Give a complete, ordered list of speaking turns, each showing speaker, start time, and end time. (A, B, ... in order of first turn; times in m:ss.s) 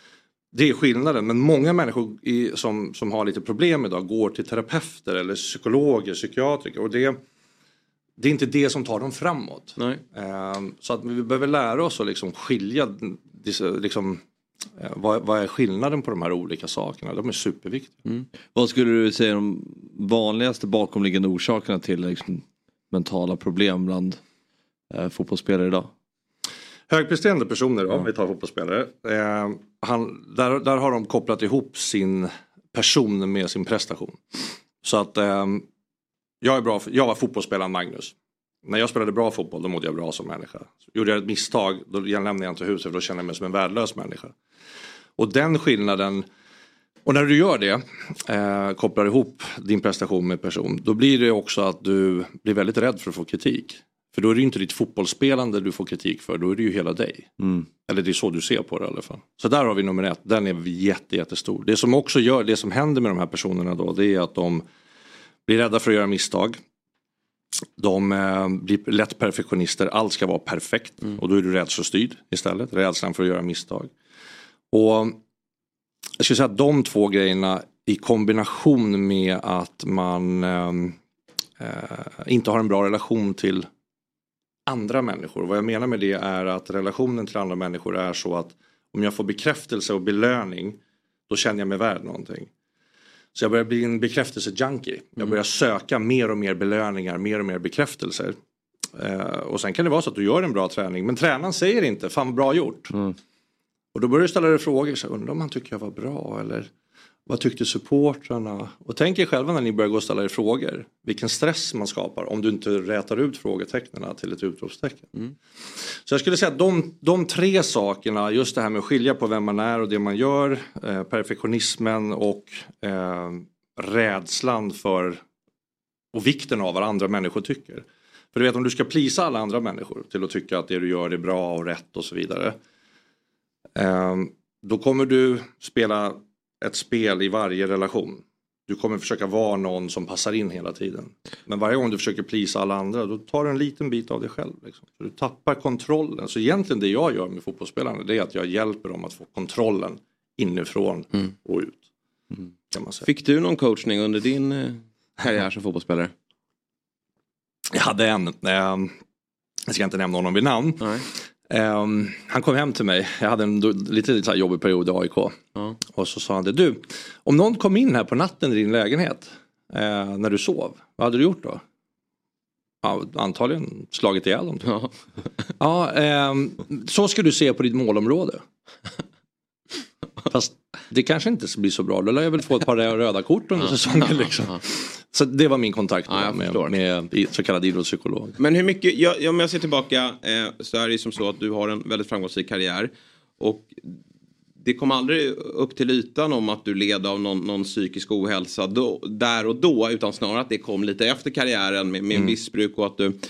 0:00.5-0:07.2 A
0:08.2-0:14.2 A
0:09.8-0:10.0 B
0:14.8-0:18.0 A
0:18.5-0:24.2 C
0:24.9-0:25.9 C
0:26.9-0:35.6 A
0:36.4-0:38.1 A
0:38.6-0:44.3 A
0:45.2-0:46.3 A
0:47.0-0:57.3 A
0:57.9-1:04.6 A
1:05.4-1:06.6 A
1:07.8-1:13.9 A
1:14.7-1:15.2 A
1:16.2-1:21.0 A
1:21.6-1:23.7 A
1:24.7-1:30.8 A
1:31.3-1:32.5 A
1:33.4-1:38.4 A
1:39.0-1:42.9 A
1:43.9-1:46.7 A
1:47.3-1:55.1 A
1:56.1-2:05.2 A
2:06.1-2:12.6 A
2:13.8-2:31.8 A
2:32.7-2:33.1 A
2:33.0-2:36.1 B
2:37.7-2:38.9 A
2:39.7-2:51.6 A
2:52.8-2:54.8 A
2:55.6-2:58.4 A
3:00.3-3:08.4 A
3:03.7-3:04.6 B
3:06.1-3:06.8 B
3:08.4-3:14.0 B
3:14.6-3:23.2 B